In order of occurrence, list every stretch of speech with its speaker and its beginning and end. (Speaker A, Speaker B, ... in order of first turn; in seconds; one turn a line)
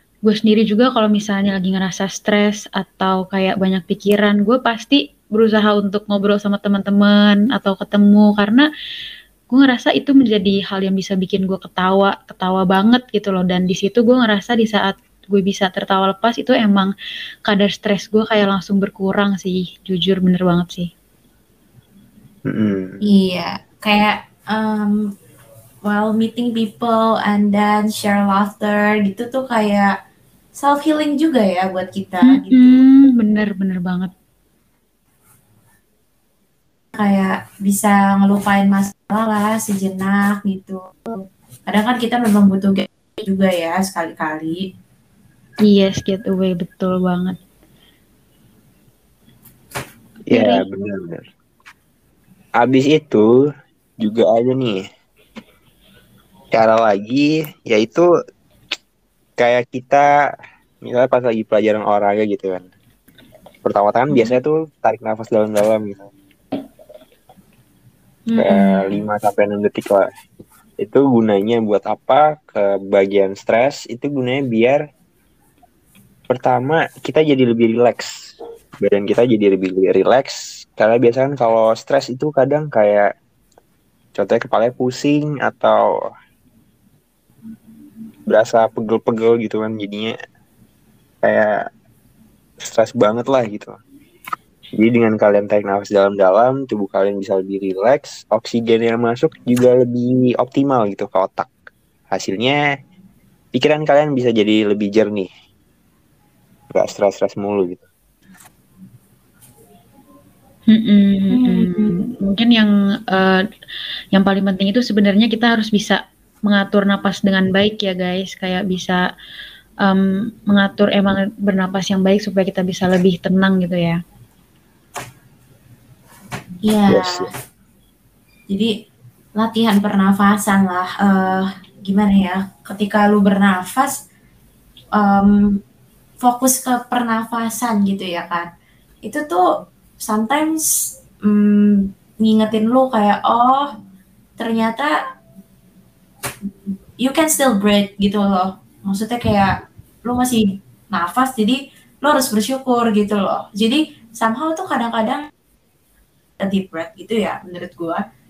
Speaker A: 0.2-8.7
Speaker A: 9.5-16.9
Speaker A: 17.5-20.9
Speaker B: 22.4-23.0
Speaker C: 23.0-25.1
Speaker C: 25.9-29.9
Speaker C: 30.6-32.8
Speaker A: 32.3-34.1
Speaker C: 36.9-44.6
Speaker A: 45.6-47.4
Speaker A: 50.3-50.6
Speaker B: 50.3-51.2
Speaker B: 52.6-53.3
Speaker B: 54.0-54.8
Speaker B: 56.5-58.1
Speaker B: 59.4-60.1
Speaker B: 60.8-62.6
Speaker B: 63.6-66.1
Speaker C: 68.3-69.0
Speaker B: 68.4-70.1
Speaker B: 70.8-74.8
Speaker B: 76.3-78.2
Speaker B: 78.8-83.1
Speaker B: 84.1-85.8
Speaker B: 88.3-90.1
Speaker B: 91.2-91.6
Speaker B: 92.6-93.8
Speaker B: 94.8-101.5
Speaker B: 102.1-102.6
Speaker B: 103.5-105.3
Speaker B: 106.7-107.8
Speaker A: 110.7-113.4
Speaker C: 111.3-112.0
Speaker A: 114.1-119.0
Speaker A: 119.8-124.0
Speaker C: 126.6-127.2
Speaker B: 126.9-127.3
Speaker C: 129.4-134.0
Speaker C: 135.0-135.6
Speaker C: 136.2-138.5
Speaker C: 139.1-139.4
Speaker C: 140.0-140.6
Speaker C: 141.2-143.7
Speaker C: 144.4-144.9
Speaker C: 147.0-149.5
Speaker C: 150.1-155.3
Speaker C: 156.4-158.0